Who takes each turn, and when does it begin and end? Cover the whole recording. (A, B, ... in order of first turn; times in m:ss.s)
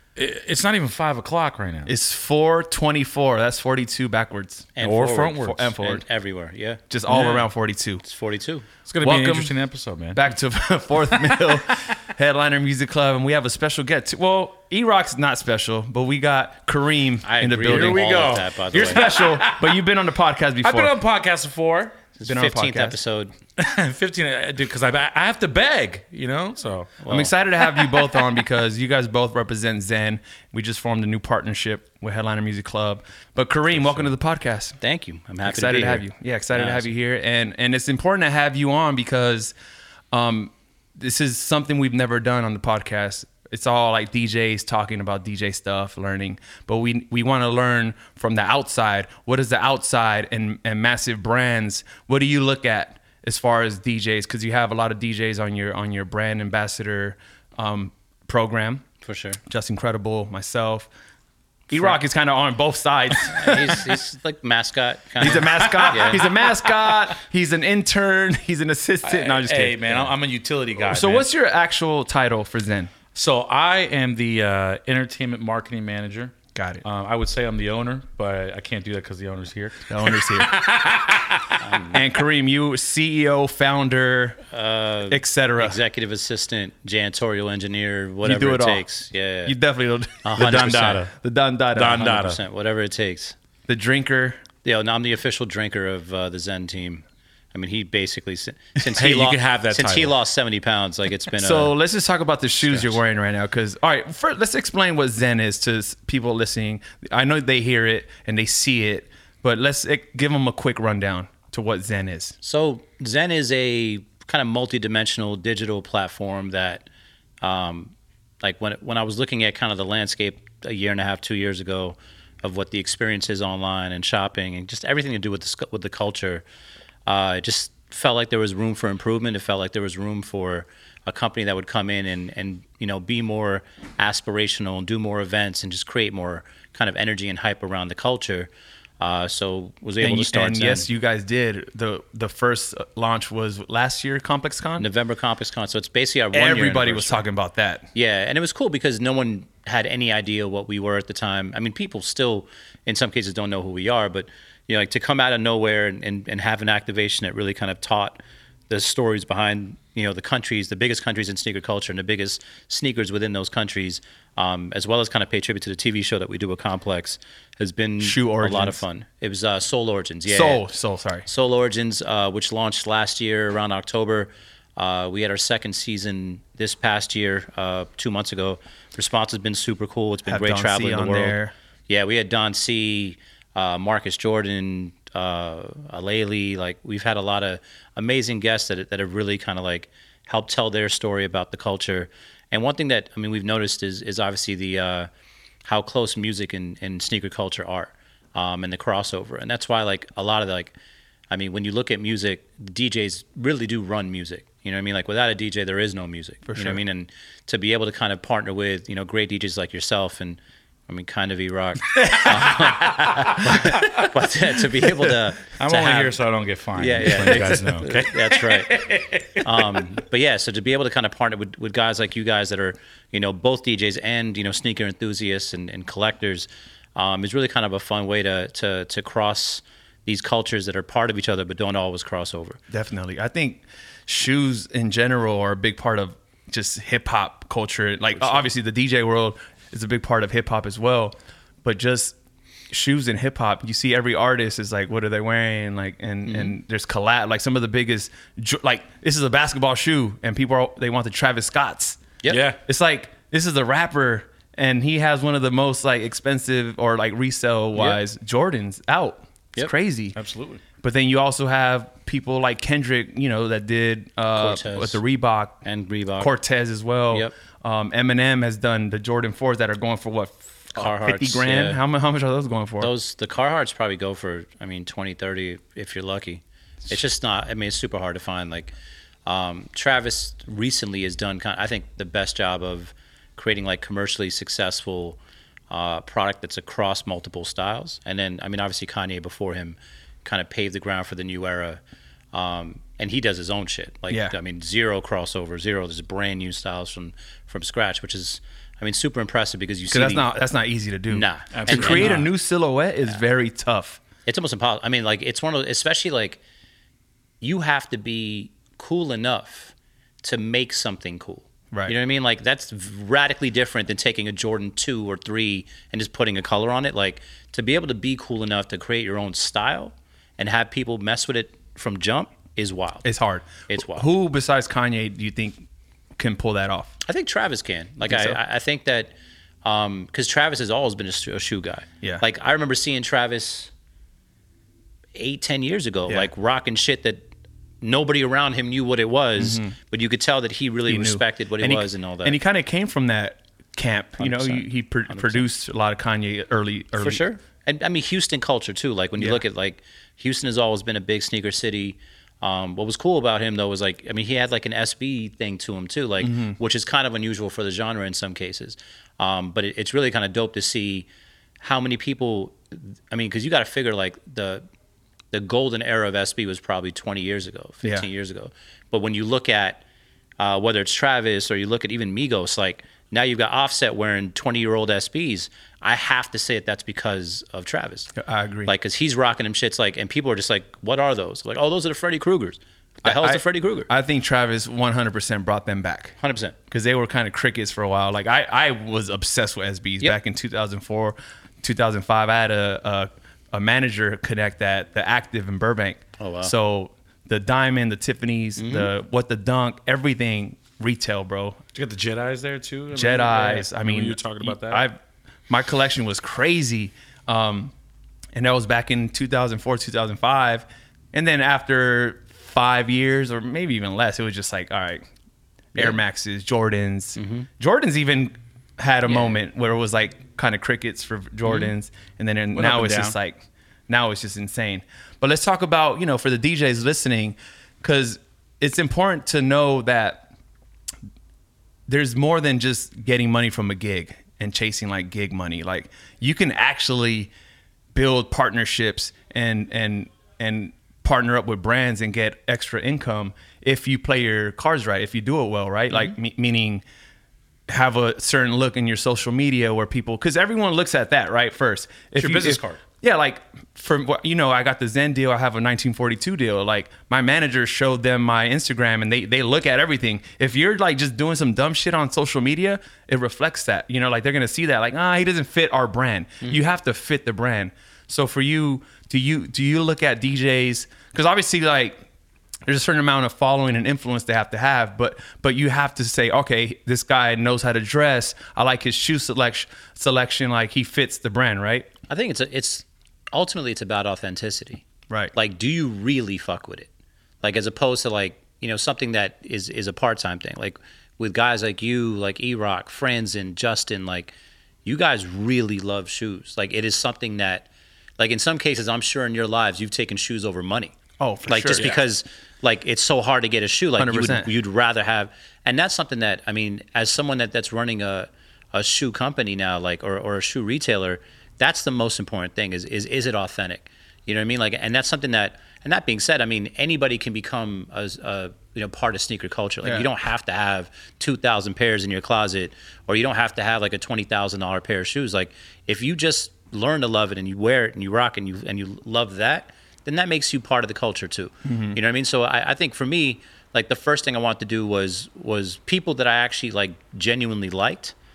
0:00.2-0:01.9 A
0:01.8-0:04.7 B
0:04.8-0:06.8 C
0:04.8-0:05.7 A
0:05.4-0:06.0 B
0:06.9-0:08.0 B
0:07.1-0:07.5 A
0:08.0-0:08.7 C
0:08.9-0:10.3 A
0:09.0-0:09.5 B
0:10.1-0:18.1 B
0:11.1-0:11.9 A
0:17.2-0:19.1 C
0:17.6-0:19.8 A
0:18.8-0:21.0 B
0:20.6-0:22.0 A
0:22.2-0:23.3 C
0:22.2-0:23.0 B
0:23.6-0:27.0 A
0:27.0-0:27.3 C
0:27.1-0:34.8 B
0:27.6-0:28.1 A
0:33.7-0:34.1 A
0:34.8-0:36.0 C
0:35.4-0:39.5 B
0:36.5-0:36.8 A
0:40.1-0:58.8 B
0:59.0-0:59.4 C
0:59.5-1:00.9 B
1:01.7-1:03.8 B
1:03.3-1:06.2 C
1:05.2-1:10.1 B
1:05.2-1:07.1 A
1:09.0-1:11.3 A
1:10.8-1:12.9 B
1:13.1-1:16.3 A
1:16.5-1:16.8 B
1:16.8-1:21.6 A
1:19.9-1:20.5 B
1:21.6-1:22.0 C
1:21.9-1:24.4 B
1:24.5-1:29.6 C
1:25.1-1:25.8 B
1:28.2-1:28.9 B
1:29.4-1:32.1 B
1:30.2-1:31.0 C
1:30.4-1:31.1 A
1:31.7-1:32.4 A
1:31.8-1:33.4 C
1:33.7-1:34.4 B
1:34.6-1:41.7 C
1:38.9-1:40.2 A
1:41.3-1:52.4 B
1:42.6-1:43.0 C
1:52.4-1:56.9 C
1:57.4-2:06.4 C
2:07.0-2:20.9 C
2:20.0-2:24.9 B
2:24.8-2:27.2 C
2:26.3-2:27.9 B
2:27.9-2:50.6 C
2:48.0-2:48.8 B
2:50.2-2:51.3 B
2:51.2-3:15.1 C
3:00.3-3:01.5 B
3:15.6-3:20.7 C
3:21.3-3:36.2 C
3:26.4-3:26.8 B
3:32.1-3:32.4 A
3:33.3-3:33.7 B
3:33.7-3:34.0 A
3:35.5-3:39.8 A
3:36.7-3:38.7 C
3:39.4-3:52.6 C
3:52.7-4:02.2 B
3:58.2-3:58.5 C
4:02.7-4:12.1 B
4:06.3-4:06.5 C
4:12.3-4:12.6 A
4:12.6-4:20.2 B
4:17.7-4:18.0 C
4:20.1-4:20.6 A
4:20.8-4:25.6 B
4:24.3-4:25.0 C
4:25.6-4:26.3 C
4:26.2-4:32.9 B
4:30.7-4:31.8 C
4:32.8-4:38.7 C
4:39.2-4:45.2 C
4:45.7-4:51.8 C
4:52.3-5:00.3 C
4:54.1-4:54.4 B
4:59.9-5:04.0 B
5:01.1-5:02.2 C
5:01.5-5:02.3 A
5:04.2-5:06.4 C
5:07.4-5:23.1 C
5:23.0-5:25.6 B
5:23.7-5:24.1 C
5:26.2-5:26.9 B
5:27.0-5:33.7 C
5:28.0-5:28.4 B
5:35.1-5:37.3 C
5:37.8-5:42.4 C
5:39.4-5:39.7 B
5:40.8-5:47.2 B
5:44.2-5:45.5 C
5:47.0-6:01.1 C
5:49.2-5:49.4 B
5:56.2-5:56.6 B
6:01.6-6:04.6 C
6:05.3-6:09.8 C
6:10.4-6:18.1 C
6:18.2-6:18.7 B
6:18.6-6:23.9 C
6:23.0-6:26.1 B
6:26.2-6:26.6 C
6:26.7-6:41.6 B
6:36.2-6:36.5 C
6:38.6-6:38.9 C
6:41.7-6:44.8 A
6:42.9-6:45.0 B
6:45.5-6:47.7 B
6:48.3-6:55.0 B
6:55.7-6:56.0 C
6:55.7-7:10.3 B
6:57.2-6:57.5 C
6:59.0-6:59.4 C
7:01.4-7:01.7 C
7:02.5-7:03.2 A
7:11.9-7:17.3 B
7:17.9-7:26.8 B
7:25.9-7:26.2 C
7:27.7-7:52.0 B
7:32.2-7:32.8 A
7:52.7-8:01.9 B
8:02.1-8:06.9 C
8:07.4-8:14.3 C
8:14.8-8:20.9 C
8:21.2-8:22.0 B
8:21.4-8:58.1 C
8:24.0-8:24.5 B
8:39.8-8:40.1 B
8:51.6-8:52.0 B